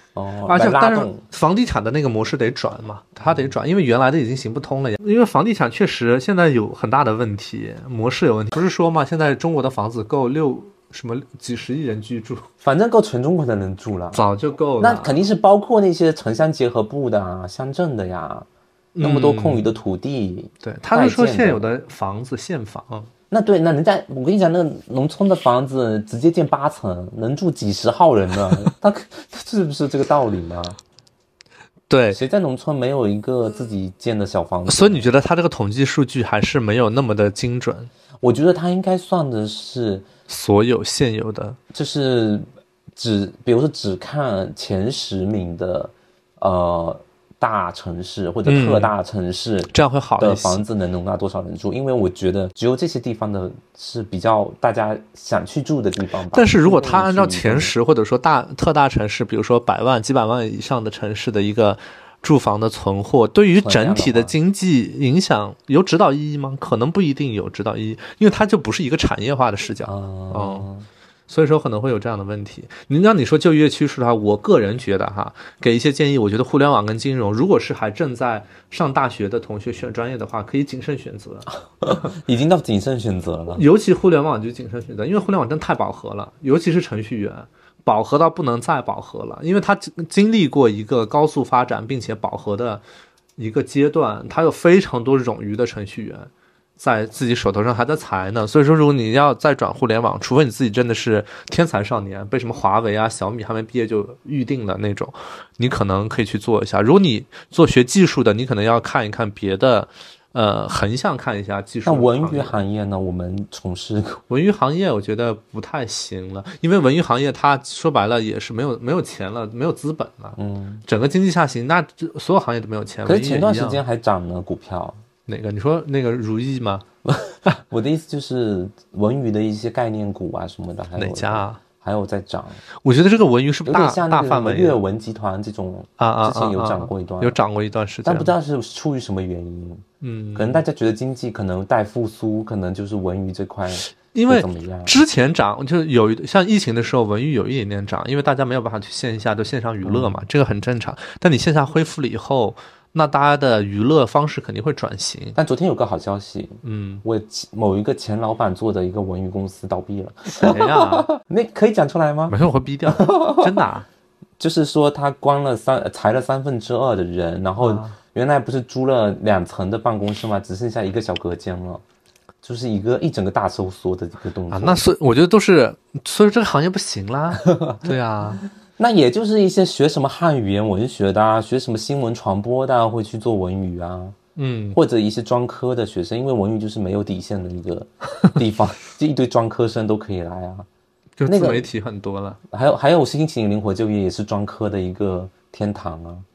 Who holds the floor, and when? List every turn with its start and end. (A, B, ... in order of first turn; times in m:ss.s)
0:00.1-0:01.2 A
0:00.5-0:12.5 B
0:12.6-0:14.2 A
0:14.1-0:15.2 B
0:14.8-0:18.4 A
0:18.9-0:19.7 B
0:19.0-0:21.7 A
0:20.6-0:23.1 B
0:23.3-0:30.8 A
0:31.9-0:32.2 B
0:32.1-0:35.1 A
0:34.7-0:37.9 B
0:38.2-0:40.0 A
0:40.3-0:41.6 B
0:41.7-0:57.7 A
0:48.4-0:48.9 B
0:49.7-0:50.6 B
0:56.3-1:10.7 B
1:03.5-1:04.3 A
1:09.8-1:10.9 A
1:11.3-1:22.1 B
1:21.8-1:23.6 A
1:23.5-1:32.8 B
1:33.4-1:52.6 B
1:51.8-1:54.2 A
1:54.3-2:03.8 B
2:00.3-2:00.8 A
2:03.0-2:05.0 A
2:05.3-2:06.8 B
2:07.1-2:12.6 A
2:11.0-2:11.6 B
2:12.8-2:14.8 B
2:13.6-2:17.4 A
2:16.0-2:18.3 B
2:18.0-2:25.0 A
2:20.0-2:20.6 B
2:23.8-2:35.4 B
2:29.8-2:30.2 A
2:35.4-2:42.4 A
2:36.6-2:37.0 B
2:40.4-2:41.1 B
2:42.3-2:43.9 B
2:42.9-2:43.6 A
2:44.4-2:51.8 A
2:47.6-2:48.0 B
2:52.4-2:54.8 A
2:54.5-2:58.4 B
2:57.4-3:04.2 A
3:04.4-3:04.8 B
3:04.7-3:10.7 A
3:11.2-3:12.4 B
3:11.2-3:11.7 A
3:12.5-3:16.2 A